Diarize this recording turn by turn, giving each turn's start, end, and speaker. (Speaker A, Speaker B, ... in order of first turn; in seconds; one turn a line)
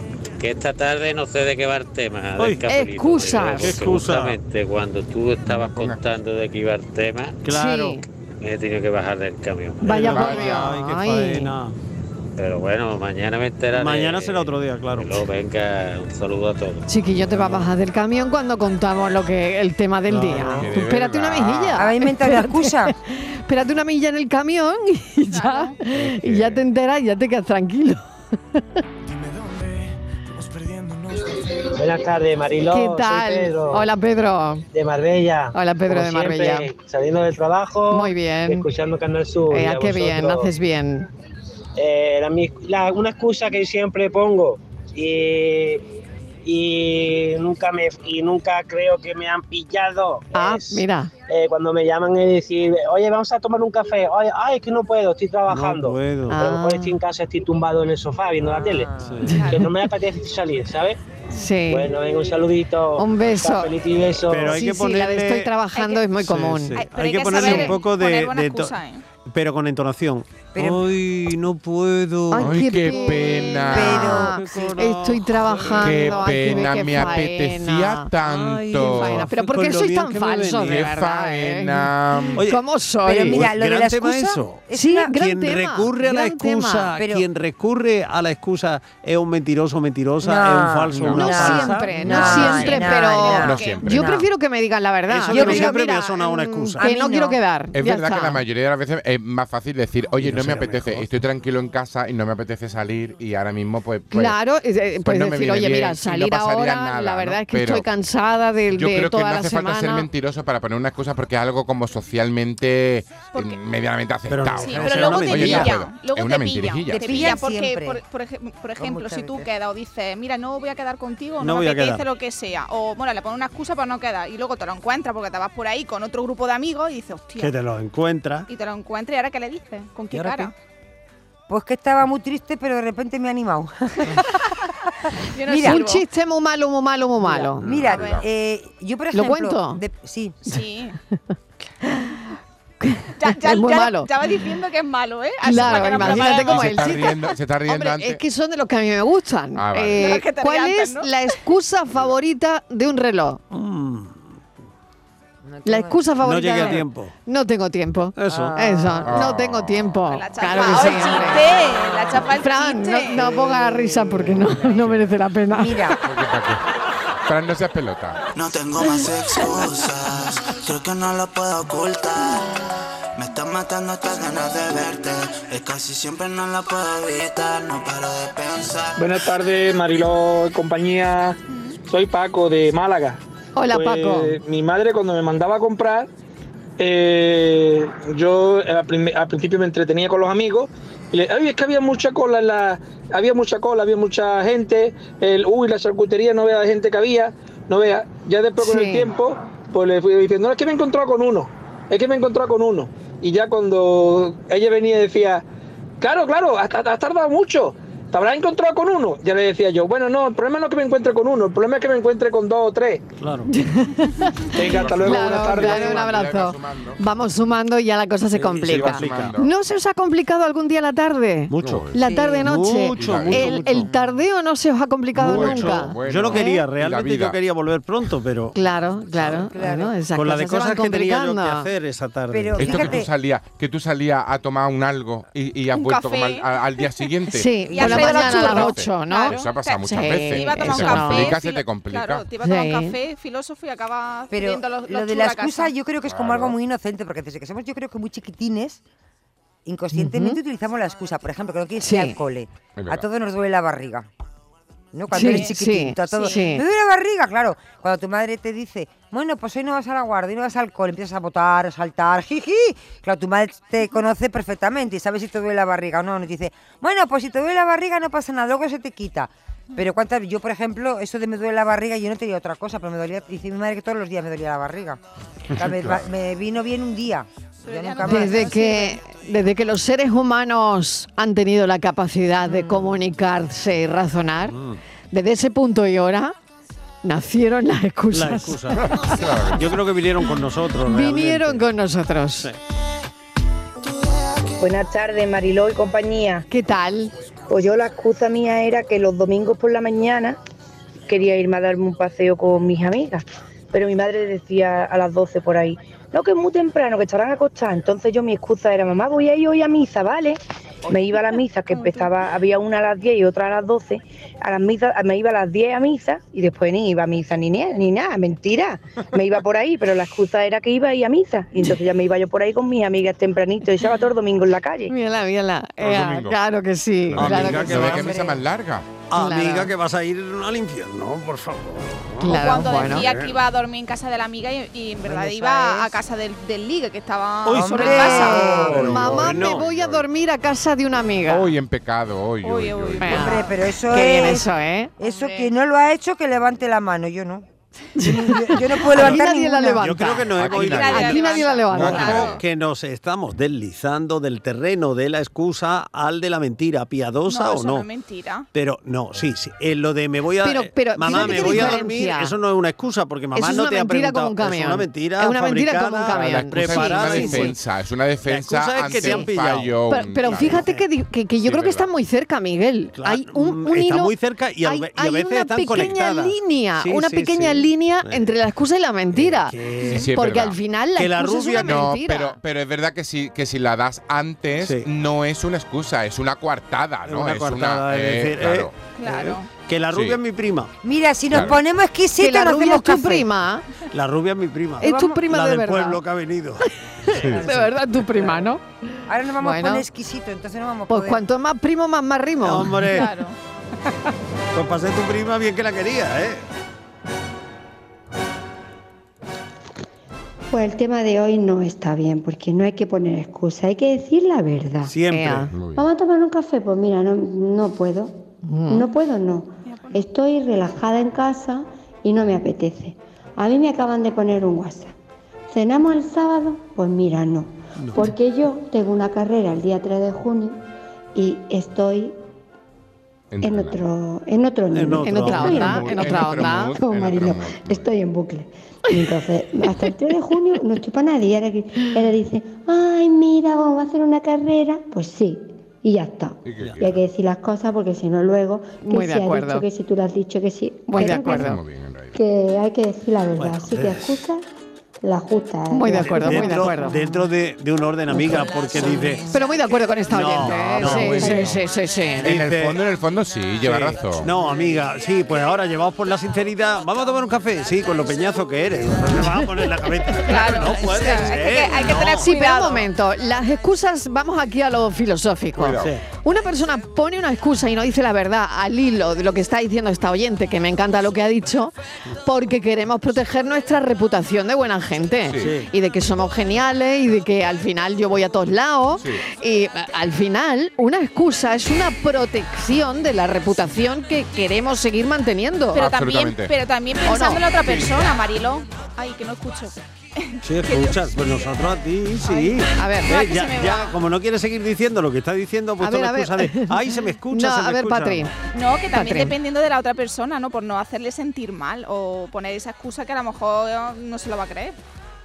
Speaker A: 0.4-7.4
Speaker B: 2.4-2.6
Speaker C: 2.6-3.8
Speaker B: 3.6-4.4
Speaker D: 5.4-6.0
Speaker B: 7.4-8.0
Speaker C: 7.5-8.0
Speaker A: 8.4-10.0
Speaker B: 9.8-11.8
Speaker C: 9.8-11.5
Speaker D: 10.1-10.7
Speaker A: 12.4-16.9
Speaker B: 13.7-15.2
Speaker C: 16.9-28.0
Speaker B: 17.2-17.7
Speaker B: 20.1-20.7
Speaker D: 20.5-21.9
Speaker E: 21.7-22.9
Speaker F: 25.3-25.8
Speaker D: 26.0-26.6
Speaker G: 31.7-33.9
Speaker C: 32.7-34.6
Speaker G: 34.7-40.5
Speaker C: 35.5-36.7
Speaker C: 37.9-38.7
Speaker C: 39.5-41.1
Speaker G: 41.8-45.8
Speaker G: 46.4-58.9
Speaker C: 50.3-51.1
Speaker B: 55.5-56.5
Speaker C: 56.3-57.0
Speaker E: 58.4-59.2
Speaker B: 59.0-59.4
Speaker C: 59.2-59.7
Speaker F: 59.3-59.6
Speaker G: 59.5-61.0
Speaker C: 61.3-61.9
Speaker G: 61.7-64.5
Speaker C: 63.0-63.7
Speaker B: 64.3-65.5
Speaker C: 64.5-66.8
Speaker F: 65.7-66.1
Speaker B: 66.2-73.0
Speaker F: 66.7-69.0
Speaker C: 67.3-67.7
Speaker E: 70.5-70.9
Speaker C: 72.3-78.1
Speaker D: 72.4-74.2
Speaker E: 73.7-74.6
Speaker B: 74.0-77.1
Speaker D: 75.7-79.3
Speaker B: 78.2-80.9
Speaker C: 78.8-83.5
Speaker D: 80.6-82.5
Speaker B: 82.3-82.6
Speaker E: 83.0-85.1
Speaker B: 83.2-92.8
Speaker C: 84.7-86.9
Speaker E: 87.0-87.2
Speaker E: 90.2-93.8
Speaker C: 91.1-98.4
Speaker F: 92.8-94.0
Speaker D: 93.3-94.2
Speaker B: 95.1-96.8
Speaker E: 95.3-96.1
Speaker E: 96.8-97.4
Speaker D: 97.7-104.4
Speaker B: 100.1-101.1
Speaker C: 104.1-110.1
Speaker D: 105.0-107.9
Speaker D: 108.7-117.4
Speaker F: 113.3-113.6
Speaker B: 114.3-115.8
Speaker F: 114.5-127.5
Speaker E: 117.0-118.0
Speaker E: 118.8-119.5
Speaker B: 121.4-122.0
Speaker B: 127.3-128.5
Speaker F: 128.5-130.5
Speaker B: 130.1-130.5
Speaker E: 131.5-134.1
Speaker F: 135.3-136.0
Speaker E: 135.4-135.8
Speaker C: 135.6-137.6
Speaker E: 137.6-140.4
Speaker D: 137.6-138.2
Speaker F: 137.9-138.2
Speaker C: 139.1-139.8
Speaker F: 140.5-141.0
Speaker C: 141.8-142.2
Speaker C: 142.8-144.1
Speaker F: 143.2-147.2
Speaker C: 145.4-153.4
Speaker D: 145.6-148.2
Speaker D: 149.5-150.1
Speaker F: 149.9-151.1
Speaker B: 153.5-154.3
Speaker E: 155.4-156.0
Speaker C: 155.6-161.6
Speaker B: 156.2-157.1
Speaker B: 158.2-158.6
Speaker E: 158.3-159.1
Speaker D: 159.1-159.9
Speaker F: 160.1-163.2
Speaker E: 161.7-162.2
Speaker C: 162.3-165.9
Speaker B: 163.1-165.1
Speaker E: 165.5-166.0
Speaker D: 166.0-166.6
Speaker D: 167.2-168.2
Speaker H: 168.3-172.6
Speaker H: 173.2-179.1
Speaker I: 179.0-186.1
Speaker F: 181.5-181.8
Speaker C: 183.6-184.4
Speaker I: 186.8-205.4
Speaker C: 198.6-199.1
Speaker I: 206.0-213.1
Speaker B: 213.2-213.5
Speaker C: 213.5-226.6
Speaker I: 214.5-216.1
Speaker D: 214.6-217.0
Speaker B: 218.3-219.3
Speaker D: 218.7-219.5
Speaker B: 221.5-223.9
Speaker D: 221.6-221.9
Speaker E: 222.0-222.4
Speaker D: 223.0-223.8
Speaker E: 223.9-224.1
Speaker B: 225.1-228.6
Speaker D: 225.2-227.4
Speaker C: 228.5-231.7
Speaker E: 229.2-229.9
Speaker B: 230.1-233.0
Speaker E: 232.3-233.1
Speaker D: 232.6-242.3
Speaker F: 235.7-236.5
Speaker C: 237.3-241.4
Speaker F: 237.7-245.8
Speaker E: 237.7-238.0
Speaker C: 242.4-243.0
Speaker E: 244.3-248.8
Speaker D: 246.0-246.6
Speaker E: 249.6-254.1
Speaker C: 249.9-250.4
Speaker C: 251.8-252.2
Speaker D: 252.8-253.1
Speaker E: 254.9-275.0
Speaker C: 255.1-256.6
Speaker F: 255.2-255.6
Speaker F: 256.1-256.6
Speaker E: 275.5-278.5
Speaker F: 277.6-279.0
Speaker C: 278.0-284.6
Speaker B: 284.5-284.8
Speaker C: 285.1-286.3
Speaker C: 287.0-289.1
Speaker B: 288.1-288.9
Speaker D: 288.9-289.7
Speaker B: 289.5-291.7
Speaker C: 290.8-292.5
Speaker J: 294.6-296.4
Speaker C: 296.5-297.1
Speaker J: 297.5-300.4
Speaker J: 301.1-324.9
Speaker F: 311.7-312.1
Speaker C: 324.9-327.9
Speaker D: 325.8-326.4
Speaker D: 327.1-328.9
Speaker B: 327.1-328.3
Speaker E: 327.9-328.3
Speaker B: 329.1-333.4
Speaker C: 329.2-329.7
Speaker C: 332.2-333.1
Speaker F: 332.2-338.6
Speaker E: 335.0-335.9
Speaker B: 337.4-339.6
Speaker C: 337.5-341.5
Speaker E: 337.8-338.9
Speaker D: 338.8-340.1
Speaker D: 341.3-343.3
Speaker F: 342.4-343.5
Speaker C: 343.0-344.9
Speaker E: 343.1-349.8
Speaker F: 345.0-345.5
Speaker C: 347.9-352.3
Speaker B: 349.7-357.9
Speaker D: 350.3-351.2
Speaker F: 350.5-352.4
Speaker D: 351.7-352.4
Speaker F: 357.3-358.5
Speaker B: 358.5-367.6
Speaker C: 360.4-362.3
Speaker D: 361.1-361.8
Speaker C: 363.3-367.5
Speaker D: 366.1-370.7
Speaker B: 368.2-370.9
Speaker C: 368.8-369.3
Speaker C: 369.9-382.4
Speaker D: 371.4-371.9
Speaker B: 373.0-378.3
Speaker B: 379.1-380.1
Speaker D: 379.8-380.6
Speaker B: 381.0-381.9
Speaker D: 381.6-388.7
Speaker B: 384.6-384.9
Speaker B: 387.0-390.7
Speaker F: 388.9-389.5
Speaker D: 389.9-390.2
Speaker E: 390.8-393.3
Speaker D: 391.3-391.6
Speaker C: 392.2-393.7
Speaker B: 393.9-397.6
Speaker C: 394.8-396.0
Speaker E: 394.8-395.2
Speaker C: 397.1-398.6
Speaker D: 397.1-397.4
Speaker E: 397.2-397.7
Speaker E: 399.1-401.2
Speaker C: 399.4-399.8
Speaker C: 400.9-403.1
Speaker B: 402.4-403.1
Speaker F: 402.9-403.4
Speaker B: 404.5-406.4
Speaker K: 410.5-414.9
Speaker B: 414.8-415.5
Speaker C: 415.1-415.5
Speaker D: 415.5-415.8
Speaker K: 415.7-418.2
Speaker C: 418.4-418.9
Speaker K: 418.7-424.9
Speaker F: 419.6-420.0
Speaker K: 425.5-430.6
Speaker B: 427.8-428.1
Speaker K: 431.1-432.1
Speaker D: 433.3-433.8
Speaker K: 433.4-451.6
Speaker B: 434.7-435.7
Speaker C: 435.0-436.7
Speaker D: 435.3-437.9
Speaker D: 446.4-447.0
Speaker C: 448.8-449.6
Speaker C: 450.9-451.6
Speaker D: 451.1-452.2
Speaker K: 452.1-454.4
Speaker B: 453.4-454.2
Speaker K: 455.0-456.9
Speaker C: 455.7-457.0
Speaker B: 456.0-459.2
Speaker C: 459.3-462.3
Speaker B: 460.1-461.6
Speaker D: 460.8-461.4
Speaker B: 462.2-462.8
Speaker D: 462.2-464.3
Speaker B: 463.6-472.3
Speaker F: 470.2-472.9
Speaker C: 472.0-495.9
Speaker D: 475.6-475.9
Speaker B: 485.4-485.7
Speaker D: 489.0-489.2
Speaker F: 495.7-501.5
Speaker D: 495.7-496.5
Speaker C: 497.1-497.4
Speaker B: 497.6-497.9
Speaker B: 500.4-508.3
Speaker F: 502.2-504.0
Speaker C: 502.8-503.1
Speaker C: 505.8-508.3
Speaker F: 508.5-514.8
Speaker C: 508.9-509.4